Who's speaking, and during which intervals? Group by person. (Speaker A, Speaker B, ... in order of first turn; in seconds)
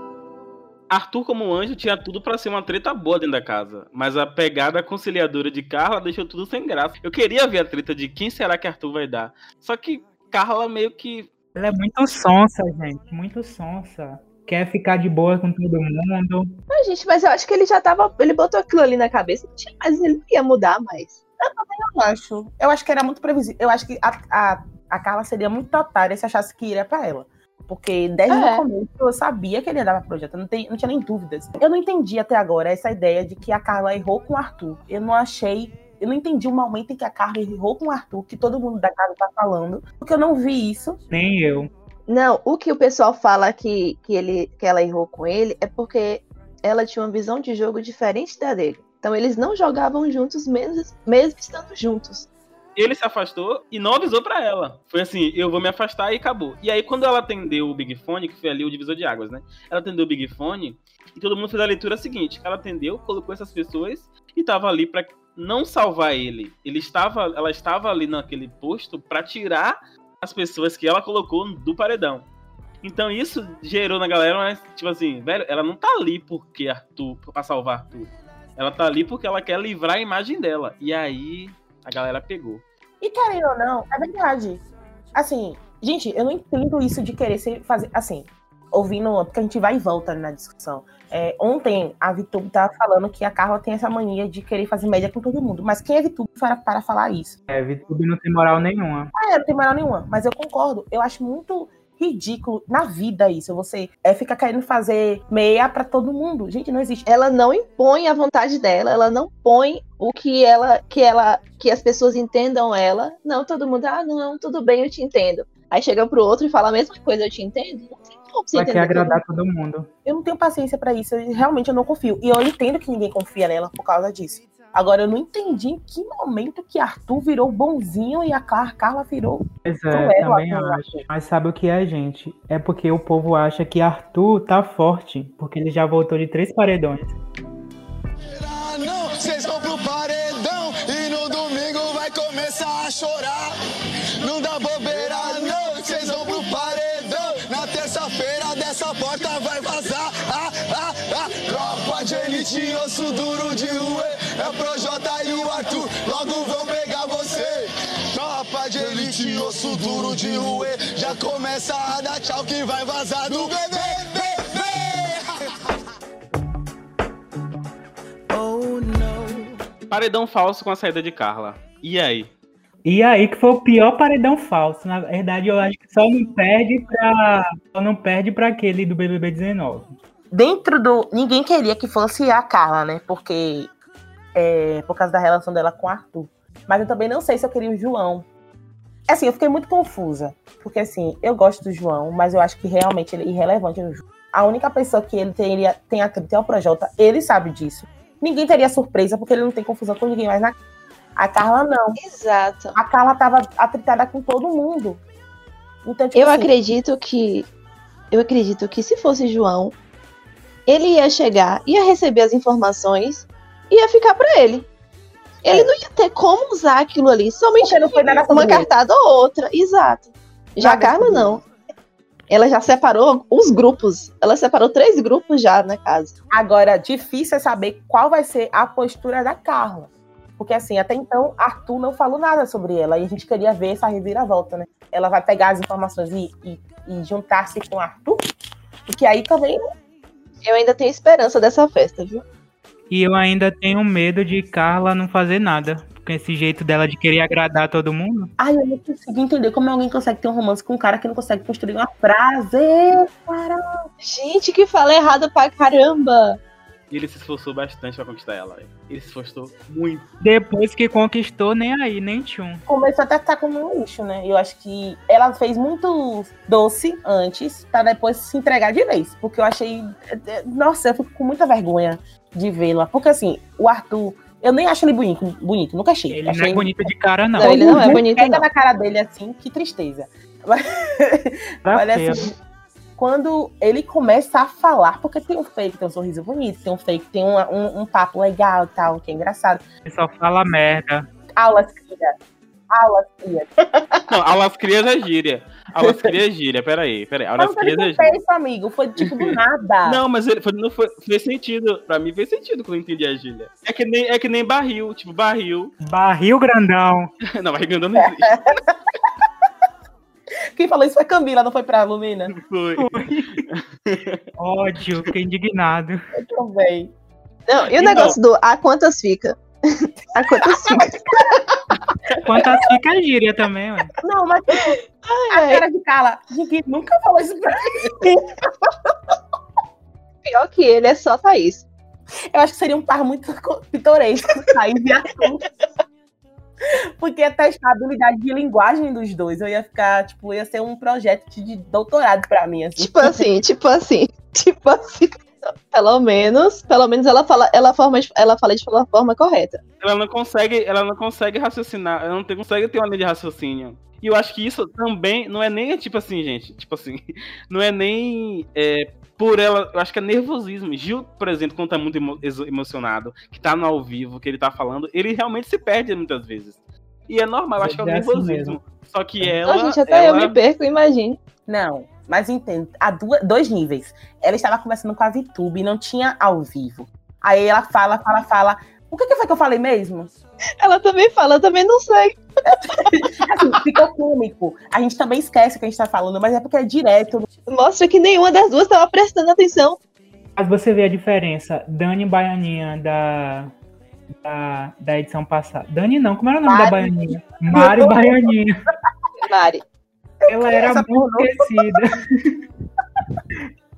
Speaker A: 0.9-11.3, 52.8-72.3, 72.8-82.6, 169.9-172.3, 256.9-260.1, 294.1-298.2, 299.8-305.7, 307.3-308.5, 312.3-314.2, 317.8-318.2, 349.8-370.3
Speaker B: 11.5-16.5, 41.1-41.7, 97.5-99.1, 118.5-119.9, 129.6-137.2, 172.8-179.9, 242.9-248.3, 260.2-262.6, 276.1-278.1, 281.6-282.3, 289.9-291.1, 305.8-307.1, 312.8-313.4, 314.4-316.0, 322.2-323.9, 367.6-368.6, 390.4-393.5, 394.2-398.6, 400.3-402.3
Speaker C: 16.7-21.2, 28.3-28.6, 42.1-52.3, 107.1-119.2, 202.0-202.8, 206.1-207.5, 208.1-209.8, 210.7-214.7, 215.4-221.4, 222.3-226.2, 240.4-242.2, 254.0-256.4, 277.4-278.4, 317.5-321.4, 325.0-325.6, 330.2-331.6, 342.8-349.6, 369.4-371.2, 380.6-382.2, 382.7-383.0, 387.5-389.8, 399.2-399.6
Speaker D: 21.4-41.0, 83.0-84.6, 85.1-97.3, 99.1-107.1, 120.0-131.0, 180.3-183.7, 184.3-188.2, 189.1-200.6, 201.2-202.0, 202.7-205.0, 205.8-206.5, 215.4-215.7, 217.6-218.7, 220.6-221.4, 226.3-238.2, 238.9-239.6, 248.4-253.8, 262.7-276.7, 277.4-282.3, 283.0-289.6, 291.4-292.1, 292.7-293.5, 297.4-300.0, 308.0-308.7, 310.6-312.3, 316.2-316.9, 320.2-321.4, 324.0-324.8, 325.3-328.5, 332.3-335.4, 337.0-343.2, 371.5-380.1, 382.5-387.3, 396.4-398.3, 400.3-401.6
Speaker E: 138.3-143.5, 144.2-165.2